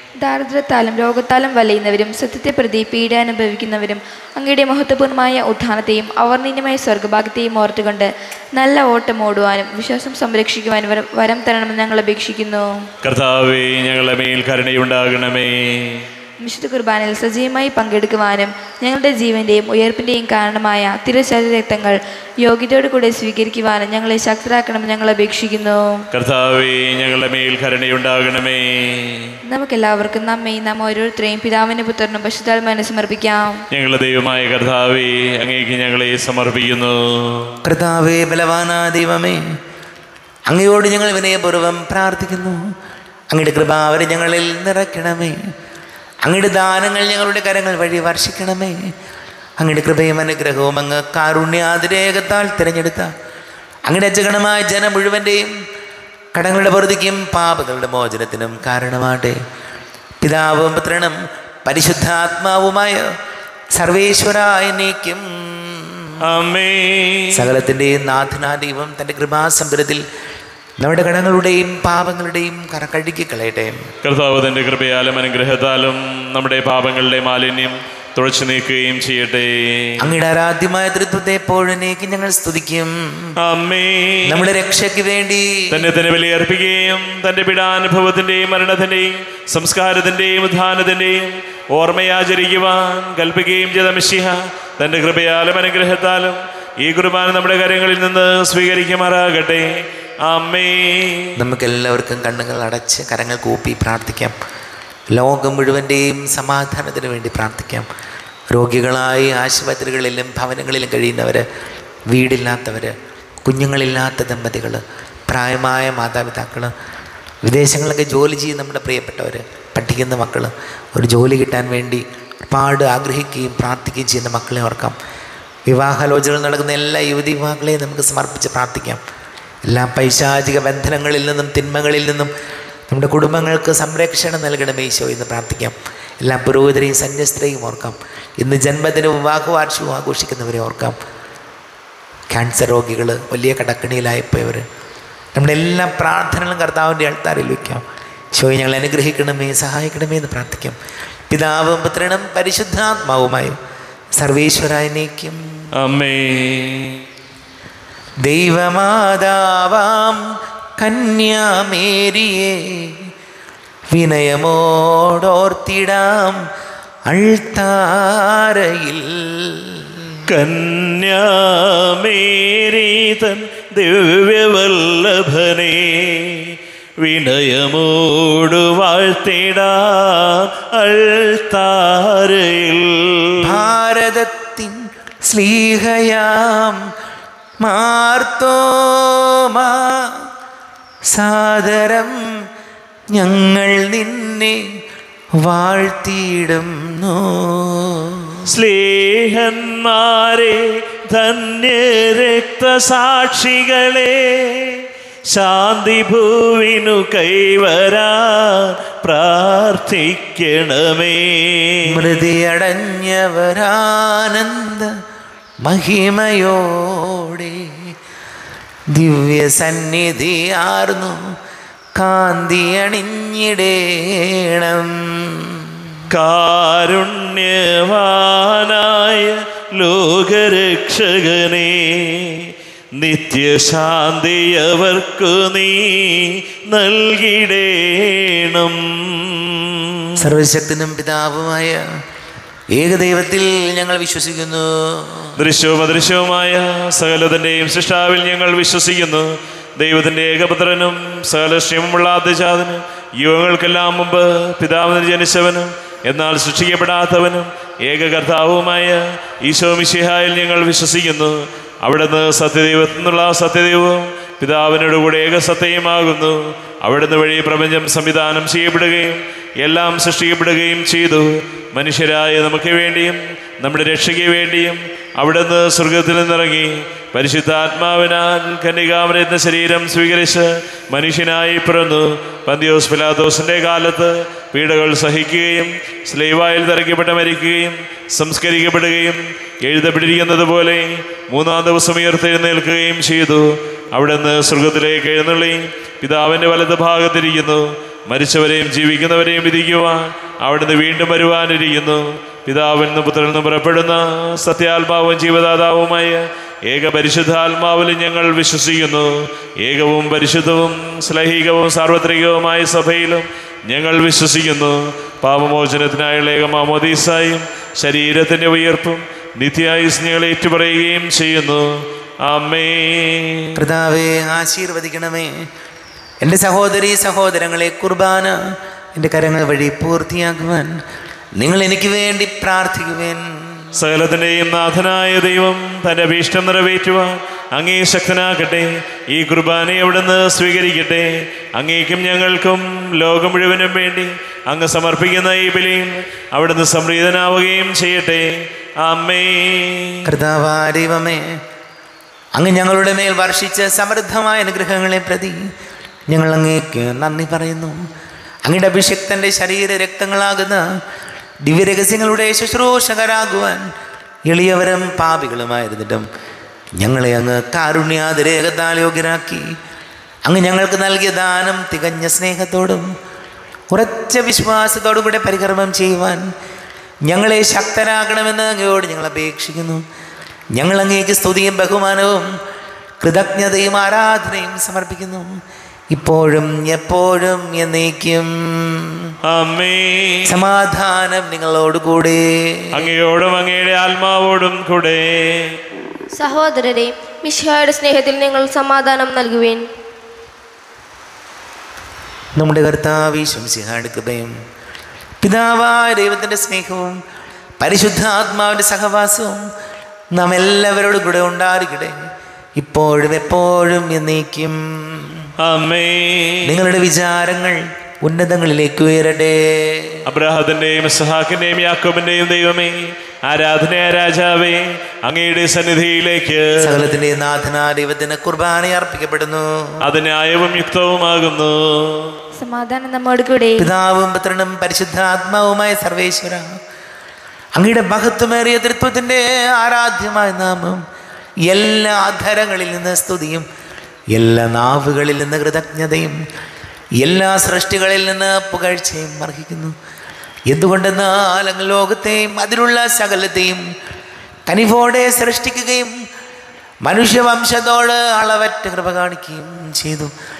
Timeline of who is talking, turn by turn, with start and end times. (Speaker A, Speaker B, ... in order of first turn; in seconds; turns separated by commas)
Speaker A: 0.2-12.8, Speaker B: 13.0-16.1, Speaker A: 16.4-26.0, Speaker B: 26.1-29.3, Speaker A: 29.5-33.6, Speaker B: 33.7-37.5, Speaker C: 37.6-39.4, Speaker C: 40.5-42.6, Speaker C: 43.3-45.4, Speaker C: 46.2-48.8, Speaker C: 49.6-53.1, Speaker C: 53.9-55.5, Speaker C: 56.3-59.4, Speaker C: 60.2-63.0, Speaker C: 63.8-66.2, Speaker B: 66.2-67.5, Speaker C: 67.3-70.0, Speaker C: 70.8-73.7, Speaker B: 74.0-80.1, Speaker C: 80.0-83.3, Speaker B: 83.4-84.4, Speaker C: 84.3-85.8, Speaker B: 85.7-99.7, Speaker B: 100.2-101.4, Speaker C: 101.4-104.3, Speaker C: 105.1-107.9, Speaker C: 108.5-111.5, Speaker C: 112.1-116.7, Speaker C: 117.4-125.0, Speaker C: 125.7-129.0, Speaker C: 129.7-132.3, Speaker C: 132.9-141.0, Speaker C: 142.3-144.6, Speaker C: 145.3-147.8, Speaker C: 148.3-150.8, Speaker C: 151.3-153.6, Speaker C: 154.2-155.4, Speaker B: 155.8-157.0, Speaker C: 158.2-160.2, Speaker C: 160.8-163.1, Speaker C: 163.9-166.4, Speaker C: 167.1-170.2, Speaker B: 170.3-183.6, Speaker C: 183.4-186.8, Speaker C: 187.6-190.1, Speaker C: 191.1-192.2, Speaker C: 193.1-194.6, Speaker C: 195.4-198.4, Speaker B: 198.5-211.9, Speaker C: 211.8-214.9, Speaker C: 215.6-217.8, Speaker C: 218.9-221.2, Speaker C: 222.0-226.0, Speaker B: 226.1-240.1, Speaker C: 240.2-241.8, Speaker C: 242.7-245.3, Speaker B: 245.4-321.7, Speaker B: 322.3-323.5, Speaker C: 323.6-325.3, Speaker C: 326.2-328.4, Speaker C: 328.9-330.7, Speaker C: 331.4-333.7, Speaker B: 333.8-350.0, Speaker C: 350.1-351.2, Speaker C: 352.4-355.4, Speaker C: 356.1-357.8, Speaker C: 358.4-360.6, Speaker C: 361.4-363.6, Speaker C: 364.3-366.0, Speaker C: 366.8-369.4, Speaker C: 370.2-372.8, Speaker C: 373.7-376.2, Speaker C: 377.1-379.8, Speaker C: 380.6-382.2, Speaker C: 383.0-385.3, Speaker C: 385.9-389.1, Speaker B: 389.3-390.4, Speaker C: 390.2-392.9, Speaker B: 392.7-395.6, Speaker D: 396.1-399.6, Speaker C: 402.4-404.3, Speaker C: 405.2-407.0, Speaker C: 407.6-409.4, Speaker C: 410.1-411.9, Speaker C: 412.6-415.3, Speaker B: 415.4-416.6, Speaker C: 416.4-420.0, Speaker B: 420.1-426.8, Speaker C: 426.6-429.5, Speaker B: 429.8-432.1, Speaker A: 432.4-433.7, Speaker C: 433.6-436.4, Speaker C: 437.6-440.8, Speaker C: 441.5-443.4, Speaker C: 444.1-446.2, Speaker C: 447.0-449.7, Speaker C: 450.5-453.6, Speaker C: 454.5-455.9, Speaker C: 456.9-460.1